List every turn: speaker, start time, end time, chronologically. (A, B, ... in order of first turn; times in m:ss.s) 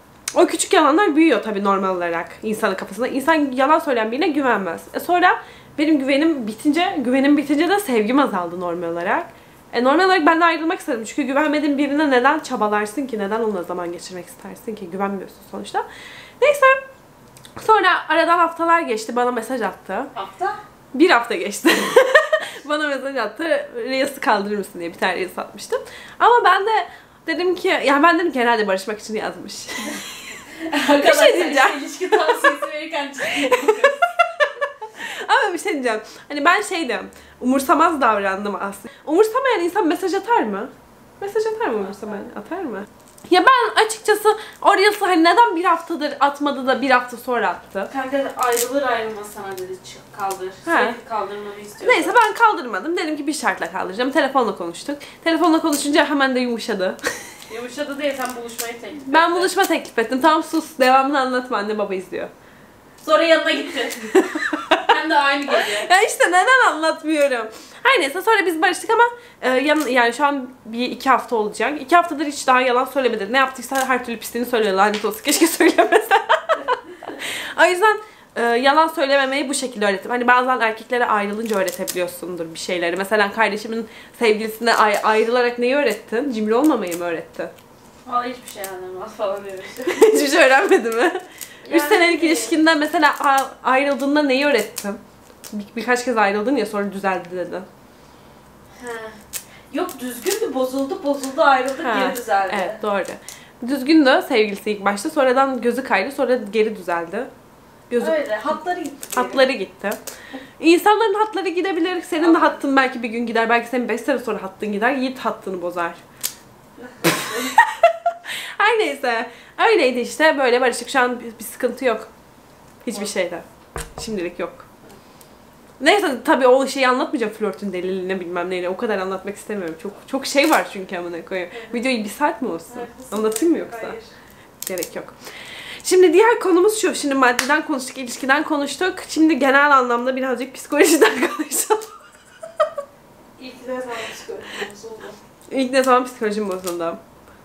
0:00.3-0:15.8 A
0:16.4-0:16.8 A
0:17.6-0:20.1 A
0:20.1-0:20.6 B
0:20.9-0:32.7 A
0:30.6-0:34.1 B
0:33.2-0:47.9 A
0:47.9-0:52.2 B
0:50.6-0:51.0 A
0:51.8-0:57.0 A
0:57.5-0:59.5 B
0:59.0-1:02.3 A
1:03.0-1:05.9 B
1:04.2-1:04.9 A
1:05.5-1:27.5 A
1:28.0-1:30.1 B
1:29.9-1:35.0 A
1:31.6-1:32.5 B
1:35.5-1:37.7 A
1:38.8-1:39.2 B
1:39.7-1:42.8 B
1:41.8-1:47.3 A
1:47.9-1:48.6 A
1:48.0-1:49.5 B
1:49.1-1:50.0 A
1:50.6-1:56.0 A
1:52.2-1:52.6 B
1:56.8-1:57.6 B
1:57.1-2:02.1 A
2:02.8-2:03.4 A
2:04.0-2:04.6 A
2:05.8-2:14.0 A
2:11.5-2:11.8 B
2:12.7-2:14.1 B
2:14.6-2:15.1 A
2:15.8-2:22.0 A
2:23.4-2:25.2 B
2:25.5-2:27.0 A